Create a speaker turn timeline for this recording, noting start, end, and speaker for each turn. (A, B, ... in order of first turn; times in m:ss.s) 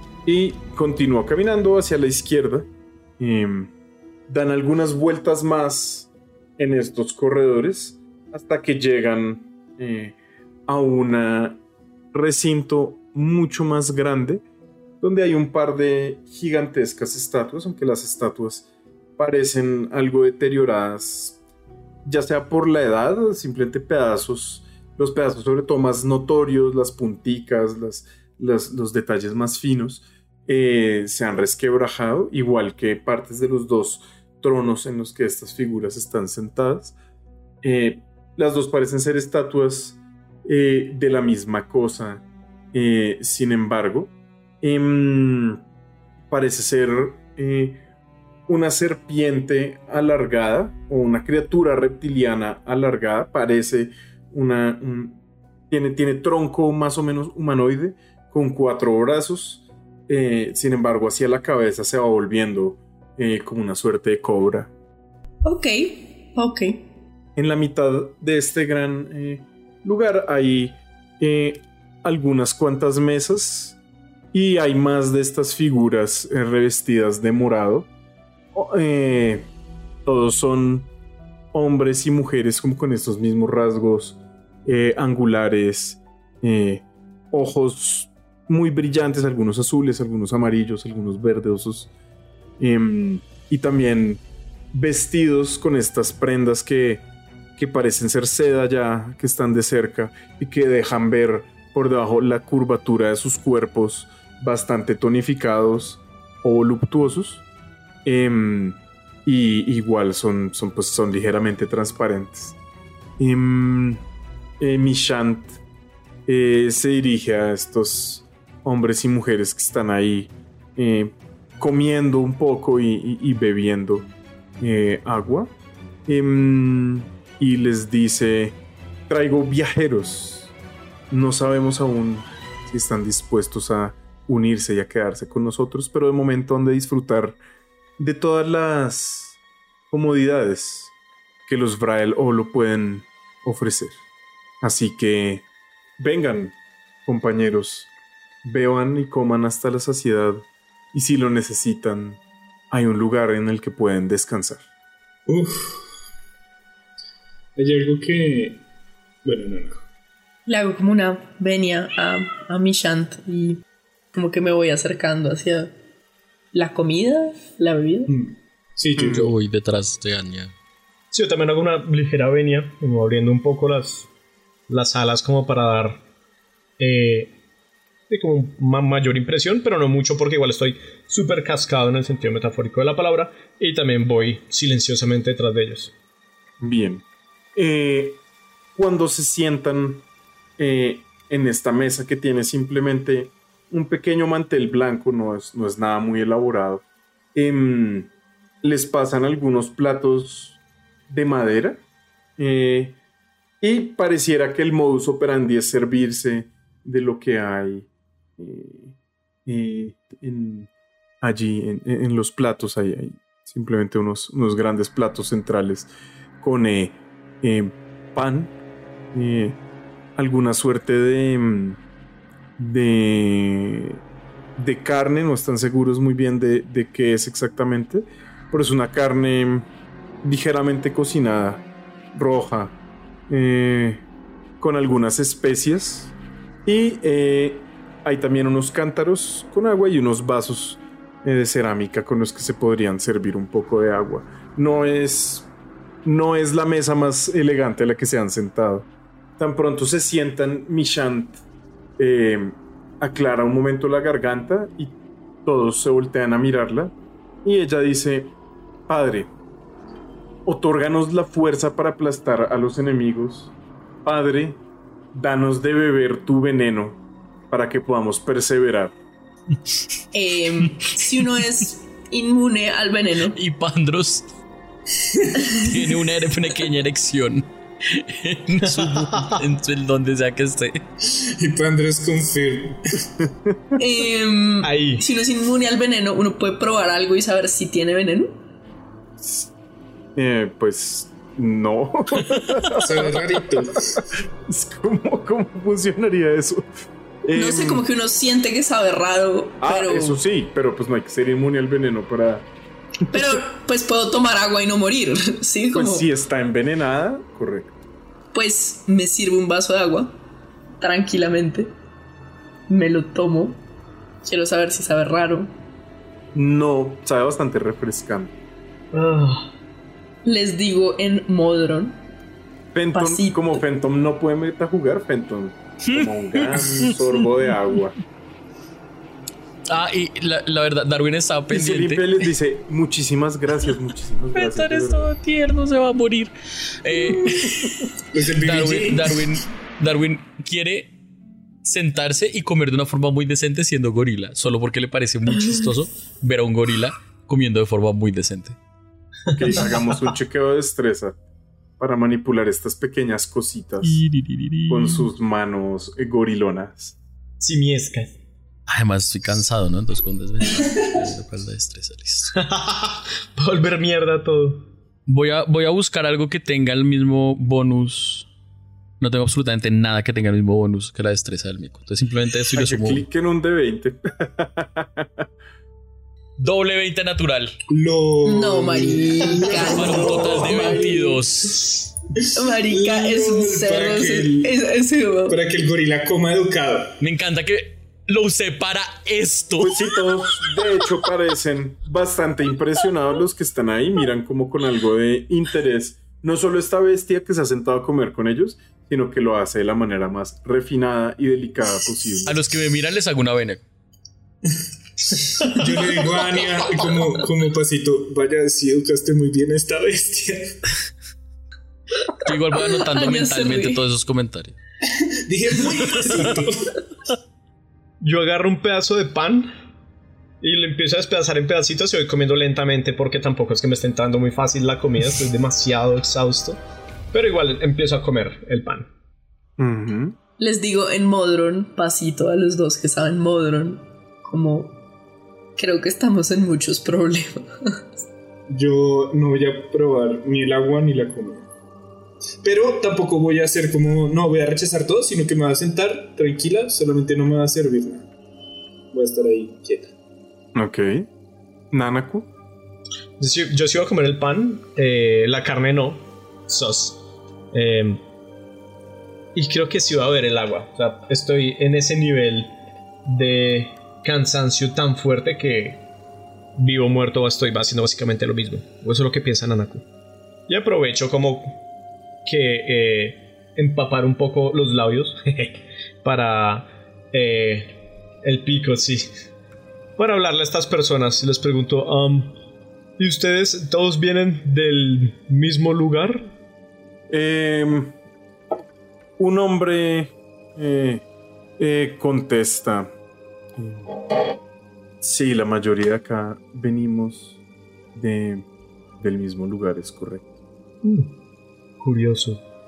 0:00.2-0:02.7 A
0:03.2-0:03.7 A
0:04.3-0:11.6 A
0:12.1-0:14.4 A
0:15.0-0:18.7 A
0:19.2-0:21.4 A
0:22.0-0:37.0 A
0:37.6-0:45.6 A
0:46.3-0:47.8 A
0:48.5-0:55.2 A
0:55.7-1:04.7 A
1:05.4-1:06.8 B
1:07.4-1:13.8 A
1:14.3-1:17.9 A
1:18.5-1:19.5 A
1:20.1-1:20.9 A
1:21.5-1:31.9 A
1:32.6-1:37.0 A
1:37.6-1:47.4 A
1:48.0-1:52.6 A
1:53.2-1:54.0 A
1:54.6-1:55.6 A
1:56.3-2:04.1 A
2:04.6-2:05.5 A
2:06.1-2:08.6 A
2:09.1-2:10.5 A
2:11.1-2:17.4 A
2:18.0-2:19.4 A
2:19.9-2:20.9 A
2:21.5-2:24.0 A
2:24.6-2:25.4 A
2:26.0-2:26.6 A
2:27.1-2:27.9 A
2:28.4-2:32.2 A
2:32.7-2:34.6 A
2:35.3-2:35.8 C
2:37.6-2:38.6 C
2:39.2-2:39.8 C
2:40.5-2:43.6 B
2:44.1-2:45.7 B
2:46.5-2:48.1 B
2:48.1-2:49.3 C
2:49.0-2:49.3 A
2:49.0-2:50.5 D
2:51.1-2:54.1 E
2:54.7-2:56.0 E
2:56.8-2:57.4 E
2:58.1-3:05.9 E
3:06.6-3:08.2 A
3:08.8-3:10.0 A
3:10.6-3:18.1 A
3:18.6-3:21.8 A
3:22.4-3:23.0 A
3:23.6-3:30.7 A
3:31.2-3:38.5 A
3:39.1-3:39.6 A
3:40.2-3:41.8 A
3:42.6-3:44.0 A
3:44.6-3:49.7 A
3:50.2-3:52.8 A
3:53.3-3:54.0 A
3:54.6-3:56.1 A
3:56.6-4:05.5 A
4:06.0-4:11.4 A
4:12.0-4:18.3 A
4:18.9-4:19.3 A
4:20.4-4:23.5 A
4:24.0-4:24.6 A
4:25.1-4:28.9 A
4:30.1-4:33.4 B
4:33.3-4:34.3 D
4:35.1-4:35.5 C
4:35.5-4:40.8 D
4:38.6-4:39.4 E
4:41.0-4:43.0 C
4:43.2-4:43.6 A
4:43.8-4:48.4 B
4:44.6-4:45.0 E
4:49.2-4:49.5 A
4:50.2-4:53.2 A
4:52.8-4:54.0 C
4:54.4-4:56.7 A
4:57.2-4:57.8 A
4:57.4-5:00.2 B
4:59.6-5:02.5 A
5:03.1-5:06.1 B
5:05.7-5:07.7 A
5:08.3-5:10.2 B
5:10.8-5:11.7 B
5:12.7-5:13.6 B
5:14.2-5:15.5 B
5:16.3-5:18.3 A
5:18.9-5:19.5 E
5:20.2-5:22.0 B
5:22.7-5:28.0 A
5:22.9-5:23.6 B
5:25.8-5:27.0 D
5:29.7-5:32.3 D
5:31.5-5:35.1 A
5:34.3-5:40.9 D
5:37.1-5:37.5 C
5:38.1-5:39.4 C
5:41.6-5:48.6 D
5:49.3-5:51.2 A
5:49.3-5:49.7 E
5:51.8-5:54.0 A
5:53.8-5:55.1 D
5:54.7-5:57.0 A
5:57.4-5:58.2 E
5:58.7-6:02.3 D
6:02.3-6:04.7 E
6:05.1-6:08.3 D
6:09.0-6:13.0 D
6:12.6-6:15.3 A
6:16.4-6:17.6 D
6:17.7-6:21.6 C
6:18.2-6:21.0 B
6:19.4-6:21.9 D
6:22.2-6:24.6 C
6:22.4-6:25.4 B
6:25.3-6:27.0 C
6:27.0-6:29.8 D
6:29.6-6:42.4 A
6:42.2-6:43.6 D
6:45.2-6:50.6 C
6:52.2-6:54.6 D
6:52.2-6:53.8 B
6:55.3-6:56.7 C
6:56.0-6:56.4 D
6:58.0-6:59.5 E
7:00.4-7:06.6 E
7:07.1-7:08.9 E
7:09.6-7:10.2 A
7:10.4-7:14.8 B
7:15.6-7:17.8 B
7:18.5-7:21.5 C
7:22.4-7:28.1 C
7:28.9-7:29.9 C
7:30.6-7:31.1 A
7:31.7-7:32.3 A
7:33.2-7:37.0 E
7:37.5-7:38.0 E
7:39.4-7:42.6 E
7:43.1-7:45.8 E
7:46.6-7:49.8 E
7:50.5-7:51.6 E
7:52.2-7:59.1 E
8:00.0-8:02.4 E
8:03.0-8:06.2 E
8:07.1-8:08.0 A
8:09.2-8:11.0 A
8:11.6-8:12.9 A
8:13.6-8:14.1 A
8:15.0-8:17.4 A
8:17.9-8:18.4 A
8:19.0-8:20.2 A
8:20.8-8:21.1 E
8:21.8-8:22.4 E